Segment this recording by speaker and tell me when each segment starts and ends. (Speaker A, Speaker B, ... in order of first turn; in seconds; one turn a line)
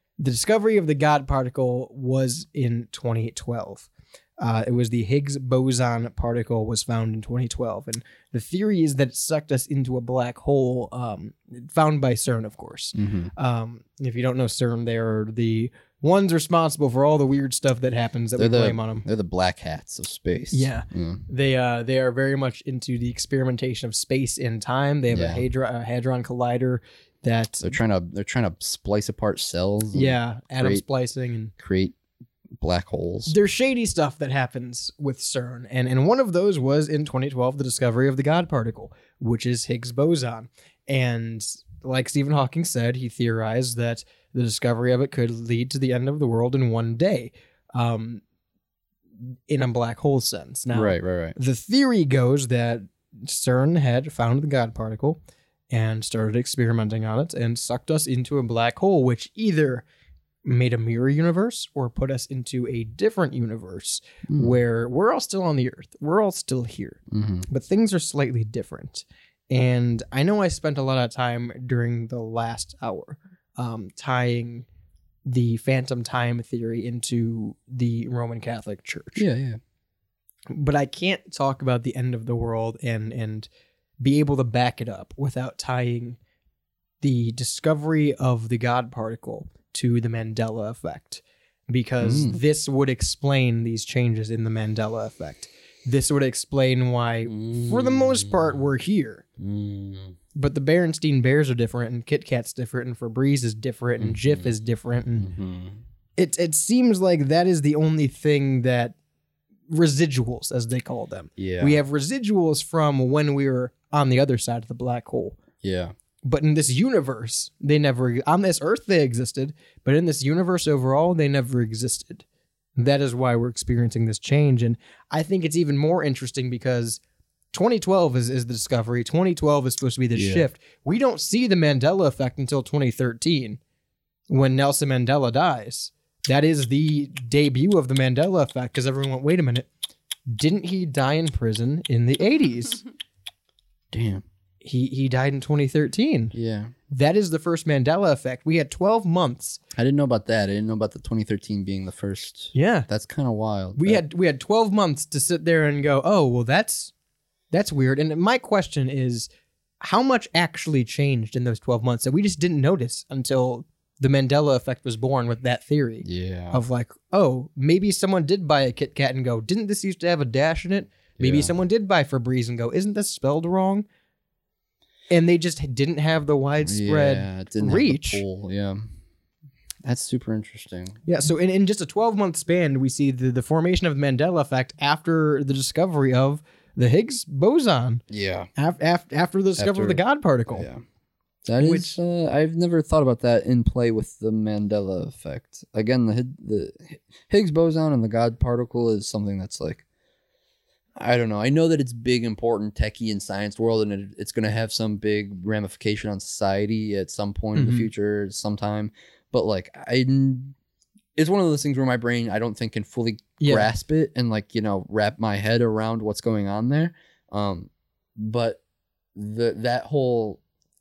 Speaker A: 0.2-19.1
Speaker B: 12.9-13.3
Speaker B: 18.4-21.2
Speaker A: 20.5-27.8
Speaker B: 25.1-25.4
Speaker B: 27.6-30.8
Speaker A: 29.9-31.5
Speaker B: 31.6-31.9
Speaker B: 32.6-33.4
Speaker A: 33.3-48.2
Speaker A: 49.5-59.9
Speaker B: 50.7-51.4
Speaker A: 60.5-74.7
Speaker B: 64.3-64.5
Speaker B: 67.1-67.5
Speaker A: 75.3-79.3
Speaker B: 79.2-79.6
Speaker A: 80.5-83.5
Speaker A: 84.0-86.2
Speaker A: 87.0-99.2
Speaker B: 92.0-92.4
Speaker B: 97.3-98.6
Speaker B: 99.4-100.2
Speaker A: 100.3-105.3
Speaker B: 104.0-104.5
Speaker B: 105.2-105.8
Speaker A: 106.2-109.0
Speaker A: 109.7-115.4
Speaker B: 111.4-111.8
Speaker B: 115.6-115.9
Speaker A: 116.2-122.2
Speaker A: 122.8-127.0
Speaker A: 127.5-133.6
Speaker B: 130.1-130.5
Speaker A: 134.3-139.7
Speaker A: 140.3-142.8
Speaker B: 143.9-144.2
Speaker A: 144.6-146.3
Speaker B: 146.3-146.7
Speaker A: 146.9-149.6
Speaker B: 149.8-154.0
Speaker A: 152.5-152.9
Speaker A: 153.8-156.9
Speaker A: 157.5-159.3
Speaker A: 159.8-173.8
Speaker B: 166.0-166.6
Speaker B: 171.2-171.5
Speaker A: 175.1-178.2
Speaker B: 176.7-178.9
Speaker B: 179.8-181.0
Speaker A: 181.1-188.0
Speaker B: 188.1-188.5
Speaker A: 188.6-190.7
Speaker B: 189.6-190.8
Speaker B: 191.4-199.8
Speaker A: 191.6-192.0
Speaker B: 201.0-210.6
Speaker A: 207.6-207.9
Speaker B: 211.2-218.6
Speaker A: 213.4-213.7
Speaker B: 219.2-220.4